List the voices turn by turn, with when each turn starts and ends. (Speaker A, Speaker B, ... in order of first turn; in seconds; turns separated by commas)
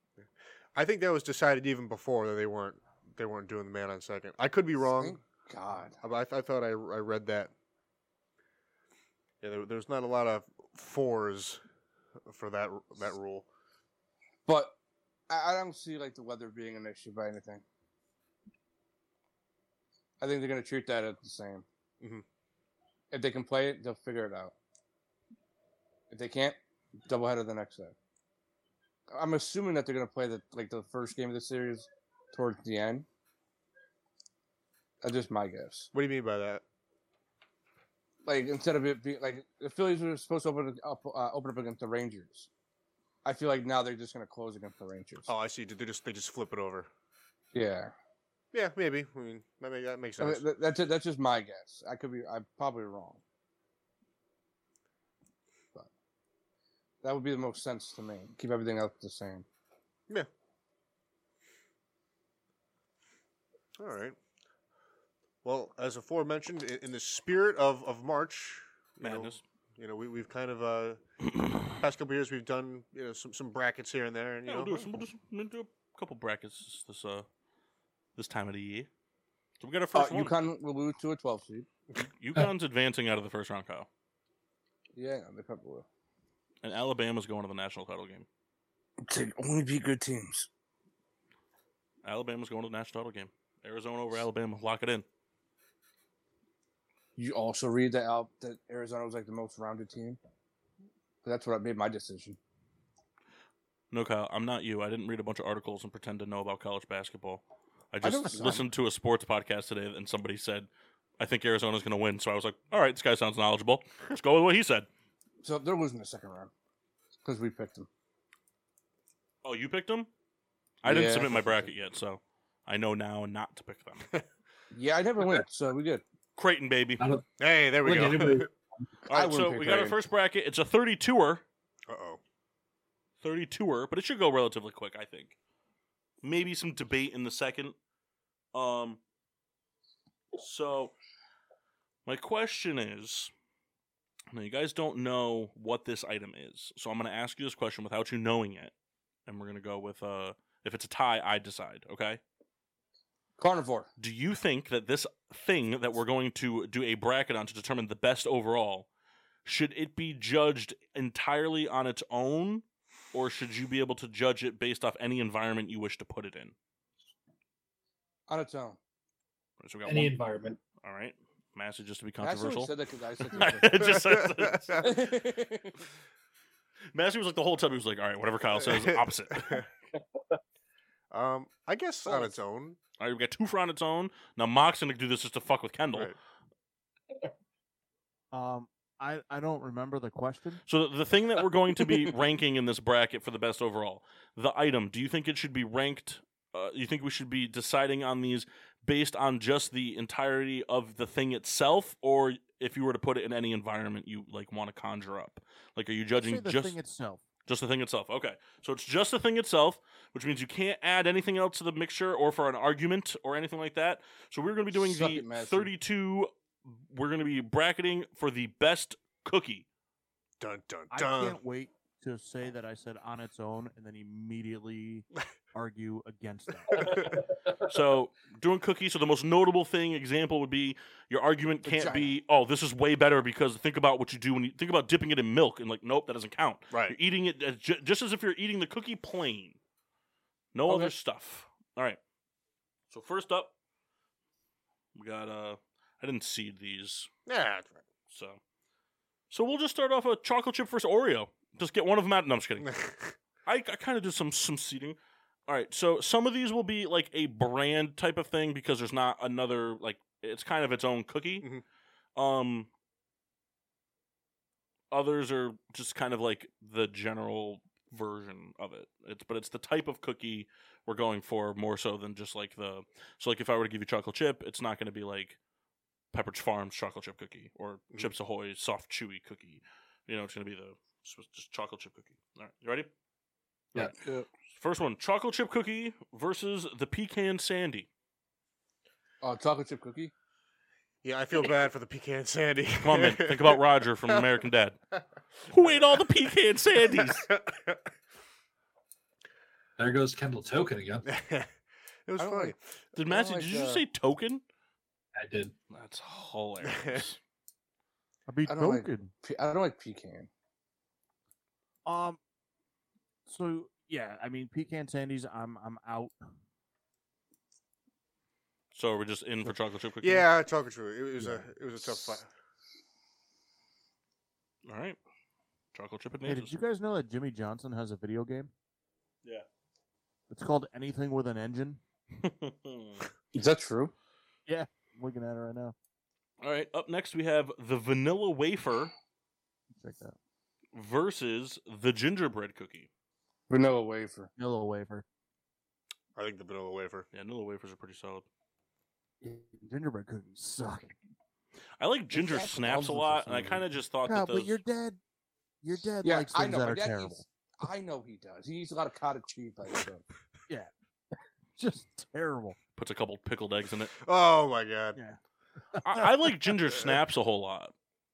Speaker A: 0.2-5.2, Speaker B: 4.8-6.0, Speaker A: 6.0-7.5, Speaker A: 9.4-11.6, Speaker A: 12.2-13.5, Speaker B: 14.5-14.8, Speaker B: 15.3-17.6, Speaker B: 20.2-21.6, Speaker B: 23.1-24.5, Speaker B: 26.1-27.9, Speaker B: 29.1-33.0, Speaker B: 35.0-35.9, Speaker A: 35.9-36.6, Speaker B: 38.2-42.5, Speaker B: 43.2-45.3, Speaker A: 45.3-46.9, Speaker B: 47.5-47.9, Speaker A: 48.5-50.4, Speaker B: 50.2-53.2, Speaker B: 57.0-59.5, Speaker A: 63.8-64.2, Speaker A: 65.4-71.0, Speaker C: 69.0-69.4, Speaker A: 71.5-74.9, Speaker C: 74.5-77.2, Speaker C: 78.2-78.9, Speaker C: 79.6-80.3, Speaker B: 79.9-81.7, Speaker C: 82.2-83.9, Speaker B: 84.9-85.8, Speaker C: 86.6-88.2, Speaker B: 89.1-90.5, Speaker C: 92.0-95.0, Speaker B: 97.2-100.2, Speaker B: 101.2-102.4, Speaker C: 103.9-110.7, Speaker B: 108.0-108.7, Speaker C: 111.2-114.9, Speaker B: 115.4-116.5, Speaker B: 117.2-117.9, Speaker C: 119.4-120.1, Speaker C: 120.8-124.1, Speaker B: 120.8-121.7, Speaker B: 124.7-126.0, Speaker C: 126.3-127.0, Speaker D: 127.0-127.2, Speaker A: 127.4-128.5, Speaker D: 127.8-128.5, Speaker C: 129.1-131.4, Speaker B: 129.1-130.0, Speaker A: 131.9-132.2, Speaker C: 133.2-135.3, Speaker C: 136.2-137.7, Speaker C: 138.5-139.0, Speaker C: 140.3-140.9, Speaker C: 142.0-143.3, Speaker C: 144.3-148.7, Speaker C: 149.2-152.2, Speaker B: 153.4-153.9, Speaker C: 154.0-158.9, Speaker C: 159.4-166.5, Speaker B: 168.3-168.8, Speaker C: 169.6-170.1, Speaker D: 169.8-170.6, Speaker C: 170.8-174.9, Speaker B: 172.2-174.0, Speaker A: 173.8-174.9, Speaker B: 174.8-175.8, Speaker C: 176.9-179.7, Speaker A: 178.6-179.6, Speaker A: 181.1-182.8, Speaker B: 182.1-182.3, Speaker C: 183.0-186.1, Speaker E: 188.3-190.6, Speaker C: 190.7-206.8, Speaker E: 206.2-207.2, Speaker C: 207.4-219.7, Speaker B: 214.7-215.7, Speaker A: 220.4-221.4, Speaker E: 220.9-227.0, Speaker C: 227.7-239.6, Speaker B: 231.7-232.1, Speaker A: 236.7-237.0, Speaker C: 240.5-242.0, Speaker B: 240.7-240.9, Speaker C: 242.9-243.5, Speaker C: 244.9-247.1, Speaker A: 247.3-247.8, Speaker C: 248.1-248.4, Speaker C: 249.3-252.8, Speaker A: 252.6-253.2, Speaker C: 253.4-261.5, Speaker C: 262.1-262.7, Speaker C: 264.9-275.4, Speaker C: 276.1-282.9, Speaker B: 283.7-284.3, Speaker C: 284.6-287.9, Speaker B: 289.2-290.1, Speaker A: 291.0-294.3, Speaker C: 292.8-294.8, Speaker C: 295.5-297.3, Speaker A: 296.8-297.9, Speaker D: 299.8-301.1, Speaker A: 301.0-301.5, Speaker A: 302.1-302.6, Speaker B: 302.2-302.5, Speaker C: 302.9-304.4, Speaker B: 303.1-303.8, Speaker D: 305.1-305.5, Speaker C: 305.7-307.2, Speaker A: 306.6-307.0, Speaker E: 308.3-309.1, Speaker B: 308.5-310.3, Speaker E: 311.9-312.2, Speaker E: 313.2-316.2, Speaker C: 318.7-320.2, Speaker A: 320.0-322.3, Speaker E: 321.2-321.5, Speaker C: 324.6-325.0, Speaker C: 325.7-326.6, Speaker E: 326.3-328.5, Speaker E: 330.3-331.8, Speaker C: 332.1-333.1, Speaker B: 333.3-333.9, Speaker E: 334.5-335.7, Speaker C: 336.4-338.9, Speaker E: 339.8-340.1, Speaker C: 340.7-342.9, Speaker B: 343.5-344.3, Speaker E: 344.4-345.0, Speaker A: 346.1-347.1, Speaker C: 347.1-348.2, Speaker E: 349.2-350.9, Speaker C: 351.8-354.6, Speaker B: 352.1-353.6, Speaker E: 354.1-355.0, Speaker E: 355.6-357.2, Speaker B: 356.0-360.0, Speaker E: 361.6-362.6, Speaker C: 362.8-363.9, Speaker A: 364.0-365.0, Speaker E: 365.7-366.1, Speaker C: 365.8-367.7